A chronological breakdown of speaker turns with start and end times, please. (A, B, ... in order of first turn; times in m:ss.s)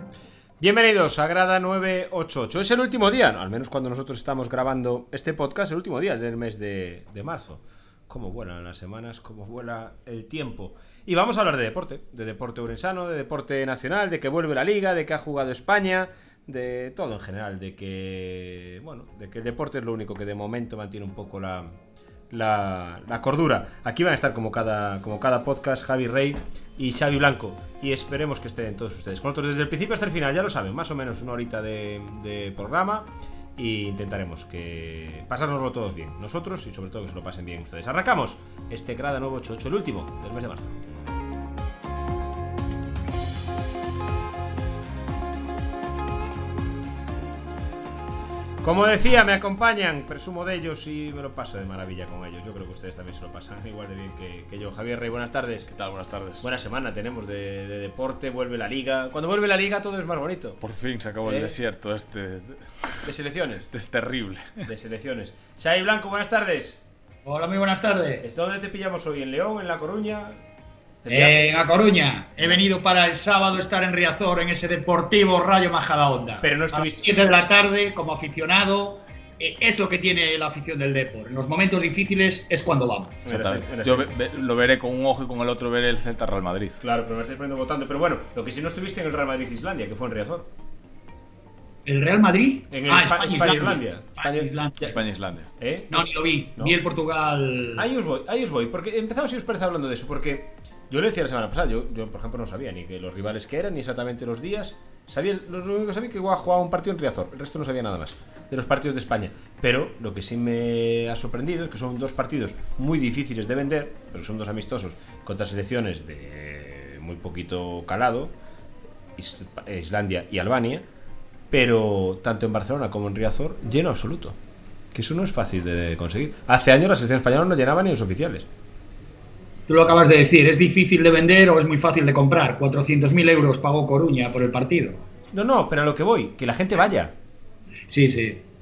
0:00.6-0:21.7 A
0:22.3-0:40.8 A
0:48.6-0:55.7 A
0:55.7-0:56.4 B
0:56.4-1:00.6 A
1:00.6-1:03.1 B
1:01.2-1:01.6 A
1:03.0-1:03.7 A
1:03.7-1:04.7 B
1:04.6-1:06.8 A
1:07.2-1:08.2 C
1:08.2-1:10.4 A
1:11.0-1:11.5 A
1:11.1-1:23.2 C
1:12.4-1:12.6 A
1:16.4-1:17.2 A
1:23.2-1:24.3 A
1:23.3-1:26.8 B
1:26.8-1:30.5 A
1:31.9-1:34.9 C
1:32.7-1:34.9 A
1:34.8-1:35.5 B
1:35.6-1:36.8 A
1:35.9-1:37.9 C
1:37.8-1:58.3 A
1:59.2-2:00.8 A
2:01.5-2:04.4 A
2:04.9-2:08.5 A
2:09.7-2:15.0 C
2:15.3-2:17.2 A
2:17.9-2:18.4 C